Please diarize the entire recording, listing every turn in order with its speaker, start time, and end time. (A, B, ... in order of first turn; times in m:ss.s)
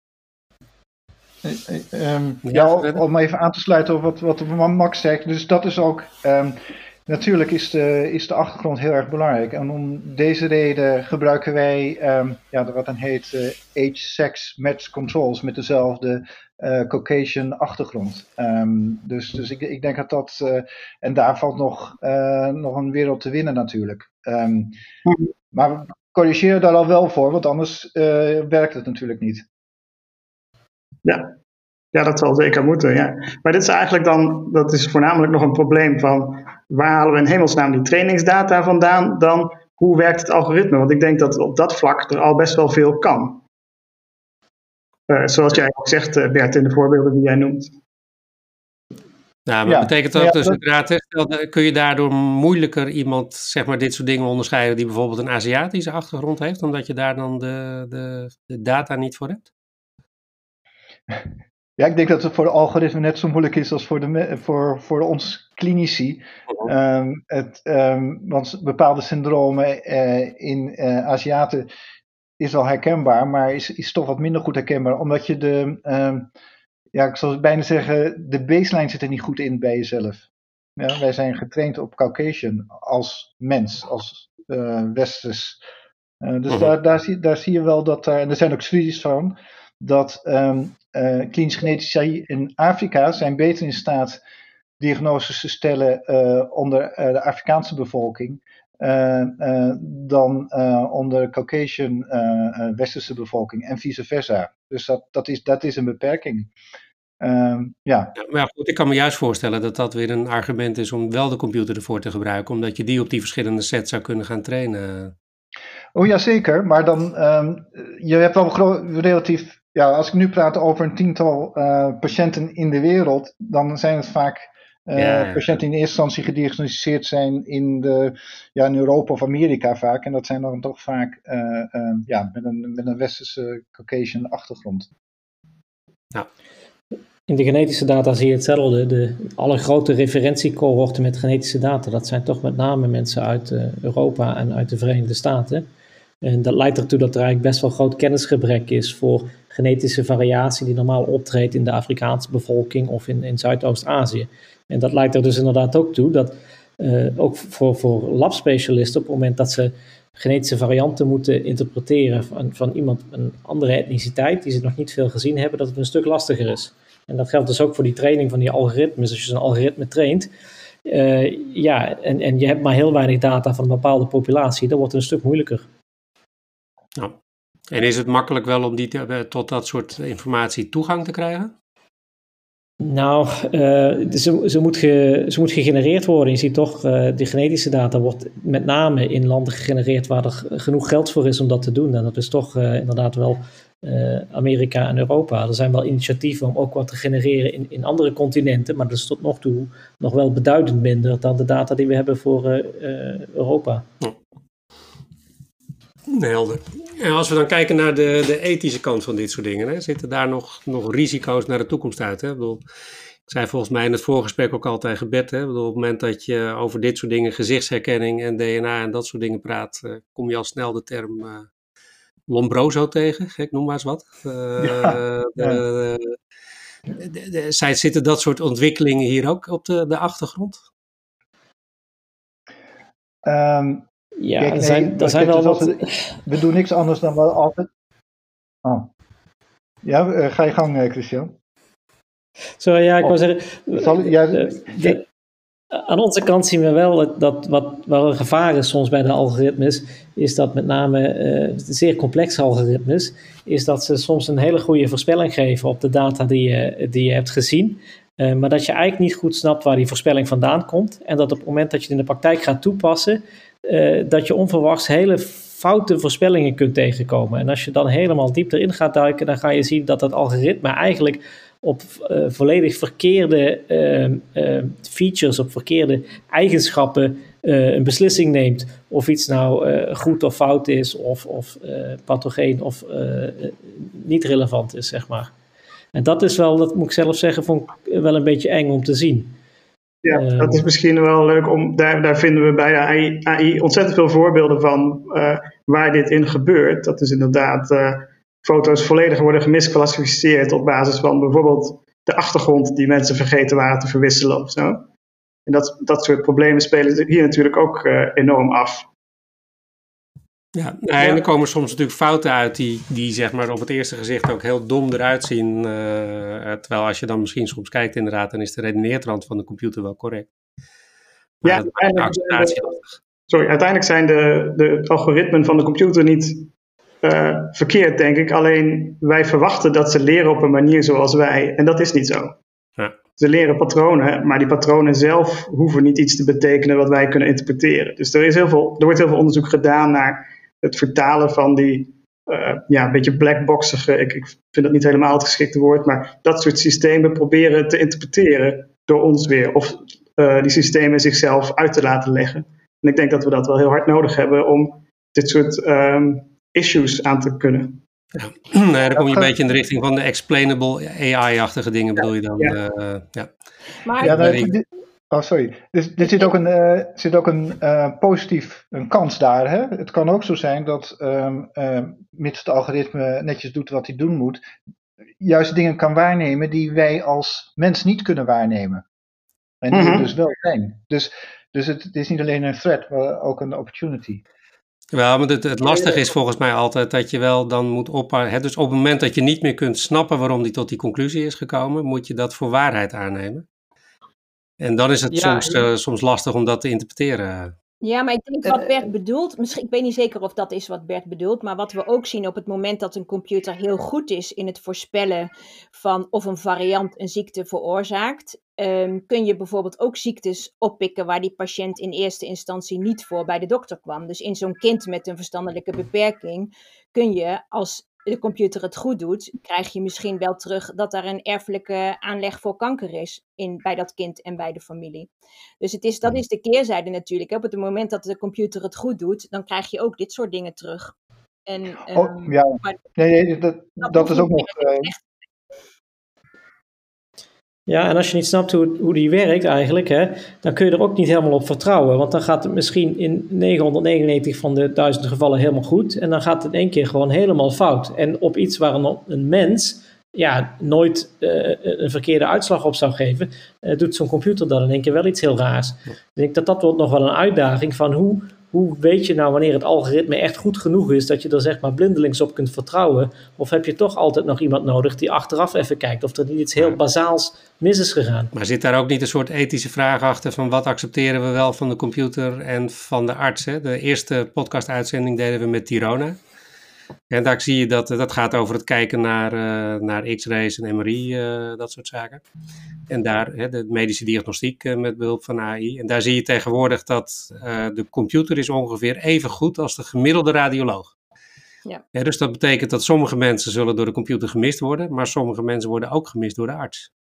0:01.4-0:24.8 A
0:02.5-0:03.0 B
0:25.5-0:29.4 A
0:31.0-0:31.3 C
0:31.9-0:43.4 C
0:45.1-0:47.8 C
0:49.5-0:59.5 B
0:49.7-0:50.6 A
1:01.1-1:11.7 A
1:12.4-1:16.3 A
1:16.9-1:25.6 A
1:26.2-1:34.2 A
1:34.8-1:46.5 A
1:47.2-1:48.1 A
1:48.2-1:55.1 B
1:56.0-2:14.9 A
2:05.0-2:05.4 B
2:17.3-2:25.7 D
2:26.2-2:50.3 D
2:50.8-2:55.7 D
2:57.7-3:01.5 B
3:02.8-3:23.9 D
3:26.1-3:32.6 B
3:33.3-3:41.5 B
3:42.3-3:46.2 B
3:44.6-3:45.6 A
3:47.0-3:50.6 B
3:53.2-3:53.9 A
3:54.2-3:56.1 D
3:54.4-3:57.7 A
3:58.6-3:58.9 A
3:59.8-4:01.4 A
4:02.6-4:05.0 D
4:03.7-4:05.0 A
4:05.7-4:45.3 D
4:45.9-4:49.4 D
4:50.0-5:04.9 C
4:50.1-4:50.6 D
5:05.5-5:08.9 C
5:10.6-5:20.3 B
5:21.4-5:22.9 B
5:21.4-5:22.8 C
5:23.3-5:26.5 C
5:27.0-5:32.4 C
5:33.2-5:57.8 C
5:58.2-6:03.3 B
5:58.9-5:59.3 A
6:03.8-6:04.5 E
6:04.0-6:04.5 B
6:04.0-6:14.4 A
6:06.0-6:06.3 E
6:15.2-6:18.8 A
6:19.6-6:24.2 A
6:19.7-6:20.1 C
6:24.9-6:33.4 B
6:34.6-6:37.5 B
6:37.8-7:05.1 E
7:05.6-7:10.9 E
7:11.5-7:12.8 E
7:11.9-7:14.9 A
7:13.8-7:15.0 E
7:17.7-7:48.3 D
7:48.3-7:56.2 B
7:57.1-8:02.2 B
8:02.9-8:10.9 B
8:11.9-8:16.9 B